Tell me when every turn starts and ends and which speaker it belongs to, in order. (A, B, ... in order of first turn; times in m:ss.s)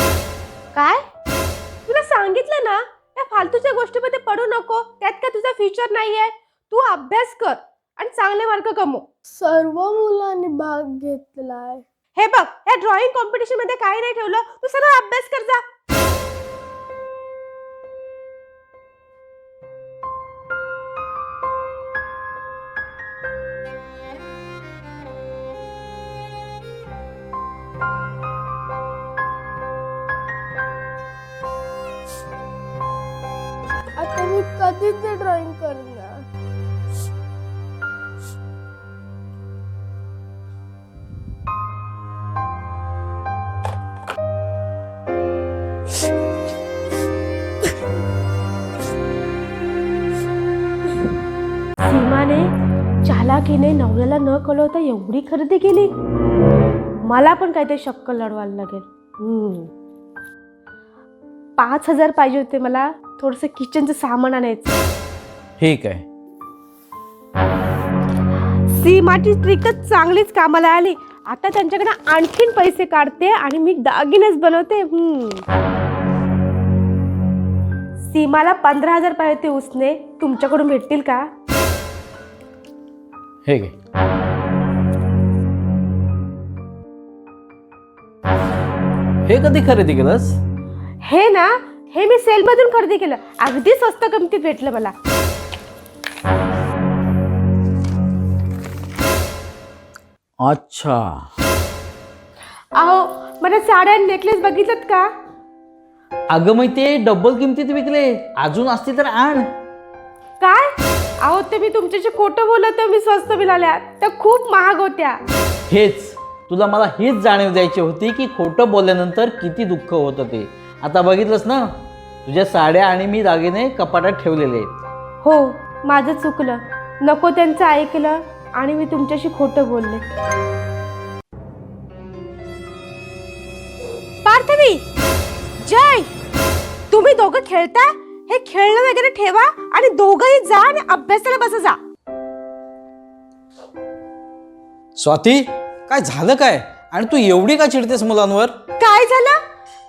0:00.8-0:01.0 A
0:01.9-0:09.0 A
0:09.4-0:11.8 B
0:12.2-0:15.6 A
0:34.0-0:36.1 B
0:51.8-0:52.5 A
0:53.0-0:55.9 A
0:57.1-0:59.7 A
1:01.6-1:04.8 A
1:05.6-1:06.0 C
1:08.7-1:15.4 A
1:18.0-1:21.3 A
1:23.4-1:23.7 C
1:29.3-1:30.4 C
1:31.0-1:34.9 A
1:40.4-1:41.2 C
1:42.8-1:45.1 A
1:46.3-1:49.4 C
1:50.4-1:55.2 A
1:55.7-2:01.7 C
2:02.2-2:04.7 C
2:05.2-2:10.0 A
2:14.2-2:14.8 A
2:15.6-2:16.1 A
2:16.9-2:21.8 A
2:25.0-2:28.6 C
2:28.8-2:29.4 A